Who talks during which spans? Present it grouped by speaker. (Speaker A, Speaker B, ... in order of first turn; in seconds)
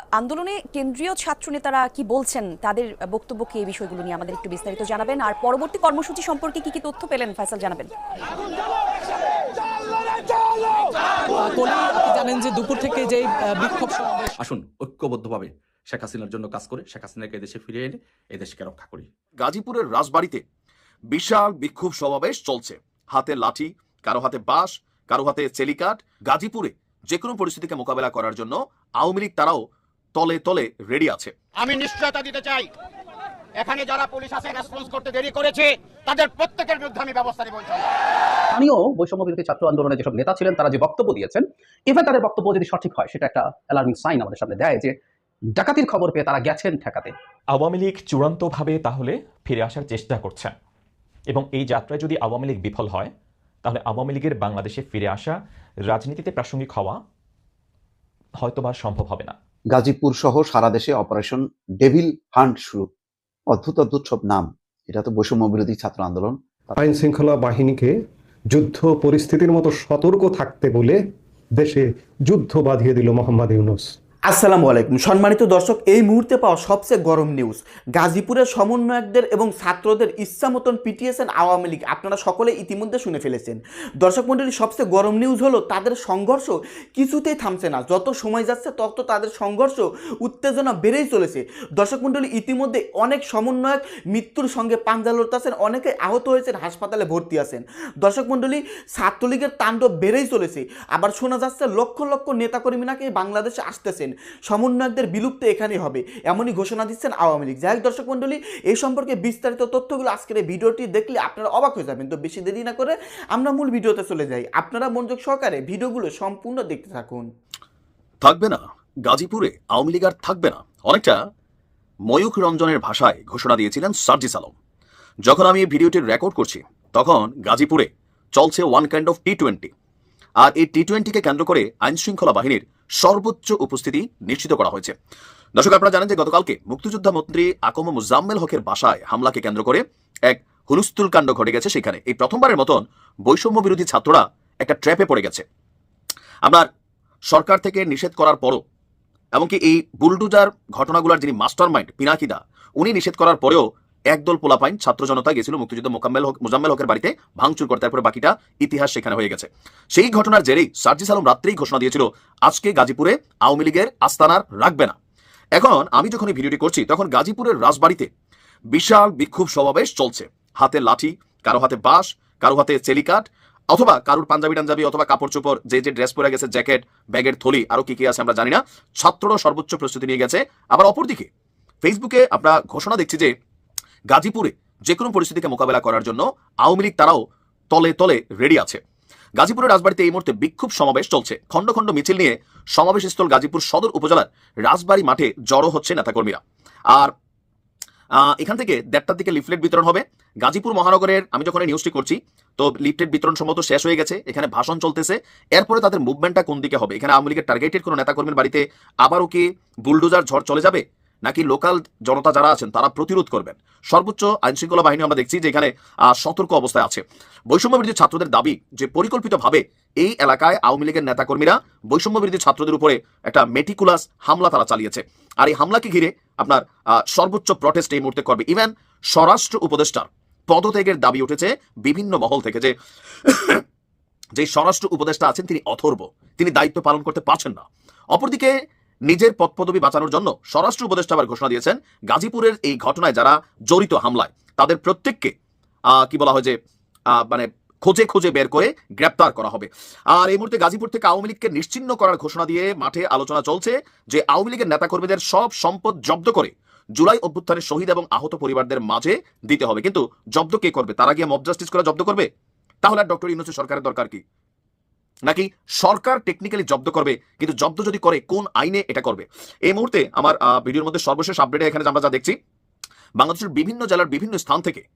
Speaker A: 0.1-7.9
Speaker B: 11.3-14.3
Speaker C: 14.4-19.1
Speaker D: 19.4-20.4, 21.1-29.6, 30.1-31.3, 118.2-121.2, 122.1-124.5, 125.2-129.7, 130.4-134.9, 135.6-145.4, 147.3-148.6, 149.3-165.0, 165.6-168.1, 168.7-181.3, 181.8-183.3, 184.1-188.8, 189.4-197.1, 198.1-233.6, 234.4-238.5, 239.1-245.3, 245.9-246.6, 247.1-262.3, 262.8-264.2, 265.2-272.4, 273.2-274.8
Speaker E: 31.6-32.7, 33.6-37.9
Speaker F: 38.5-45.0, 45.5-47.1
Speaker G: 47.5-50.5, 51.3-53.1, 53.6-55.4, 55.9-57.0, 58.4-59.4
Speaker H: 59.7-62.9, 63.5-66.7
Speaker I: 66.8-67.9, 68.5-71.0, 71.6-73.9
Speaker J: 74.3-117.3